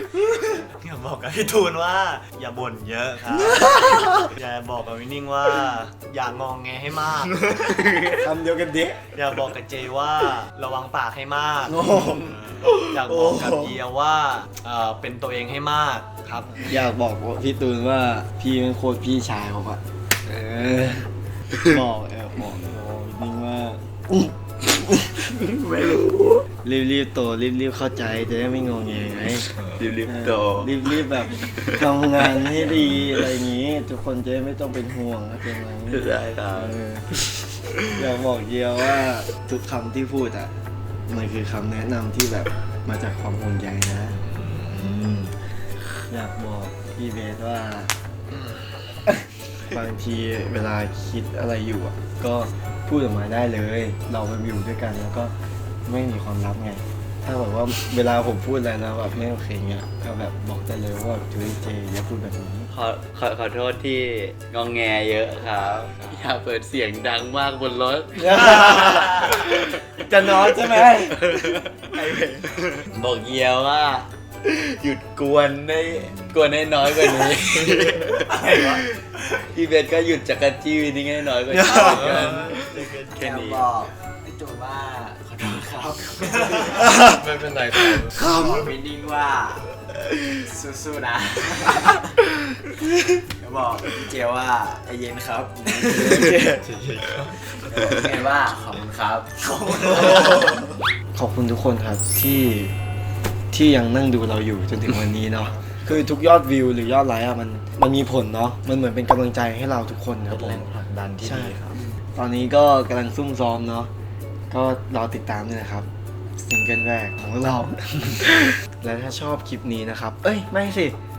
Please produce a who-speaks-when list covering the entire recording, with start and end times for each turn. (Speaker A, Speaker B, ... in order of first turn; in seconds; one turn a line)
Speaker A: 0.7-3.7
Speaker B: 3.5-4.2
Speaker A: 4.2-8.0
Speaker B: 8.1-9.1
Speaker A: 9.1-16.8
Speaker B: 11.7-13.8
Speaker B: 16.7-25.4
Speaker C: 25.4-26.4
Speaker B: 26.6-29.4
Speaker C: 29.3-32.6
Speaker D: 29.6-29.9
Speaker B: 30.0-37.1
Speaker C: 33.1-33.4
Speaker C: 35.9-37.8
Speaker B: 37.9-40.5
Speaker B: 41.1-44.2
Speaker D: 44.3-45.3
Speaker B: 46.1-47.9
Speaker B: 49.7-55.3
Speaker B: 55.9-62.7
Speaker C: 62.7-71.8
Speaker B: 68.1-71.3
Speaker B: 71.9-72.5
Speaker C: 72.9-83.7
Speaker D: 75.9-76.3
Speaker D: 77.5-78.3
Speaker E: 81.5-87.0
Speaker D: 81.8-83.0
Speaker D: 86.4-88.2
Speaker E: 88.2-89.7
Speaker E: 90.2-92.1
Speaker E: 93.3-96.4
Speaker B: 95.9-96.6
Speaker D: 96.4-98.0
Speaker E: 97.4-100.6
Speaker B: 101.1-102.7
Speaker B: 103.5-110.7
Speaker D: 110.3-111.8
Speaker B: 111.2-113.9
Speaker B: 114.5-121.0